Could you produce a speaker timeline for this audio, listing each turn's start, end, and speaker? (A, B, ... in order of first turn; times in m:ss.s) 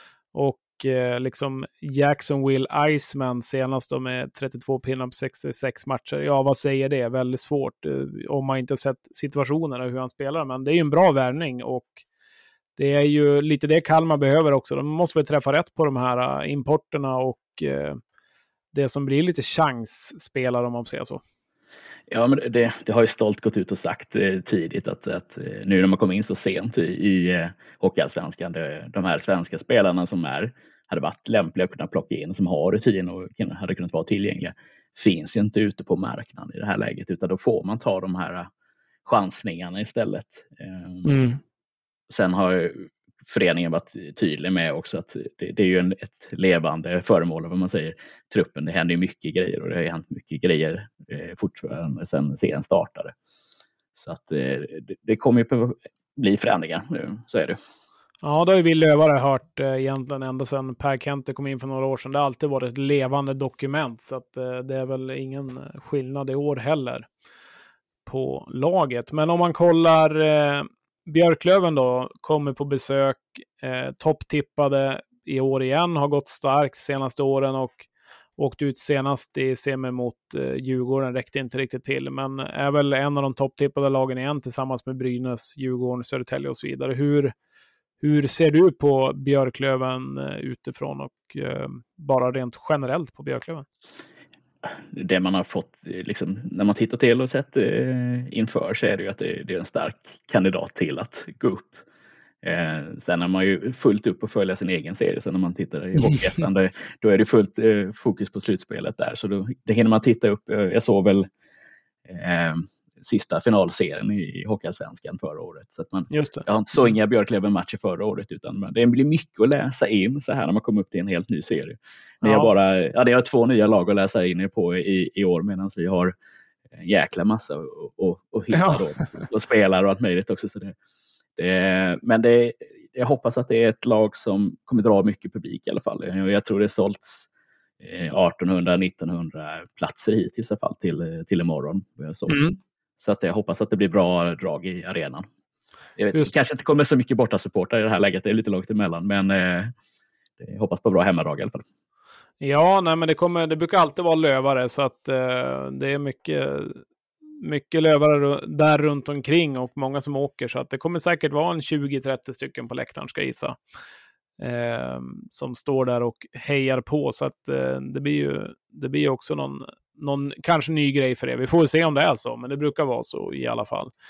0:00.3-0:12.0 A
0:12.8-0:18.0 A
0:18.7-0:21.2 A
0:22.1-0:38.5 B
0:39.0-0:41.2 B
0:41.0-0:41.4 A
0:42.1-0:53.1 B
0:53.9-0:57.6 B
0:58.2-1:07.1 A
1:08.0-1:27.3 A
1:28.0-1:33.6 A
1:34.9-1:41.8 B
1:42.4-1:51.3 B
1:46.0-1:46.2 A
1:52.1-2:06.1 B
1:56.1-1:56.4 A
2:02.2-2:02.5 A
2:06.7-2:10.7 B
2:08.5-2:09.2 A
2:11.4-2:17.3 B
2:17.8-2:22.4 B
2:22.3-2:22.6 A
2:23.0-2:25.2 B
2:26.0-2:29.7 B
2:26.1-2:26.4 A
2:30.4-2:31.6 B
2:32.4-2:36.8 A
2:37.4-2:43.6 A
2:44.4-2:53.9 A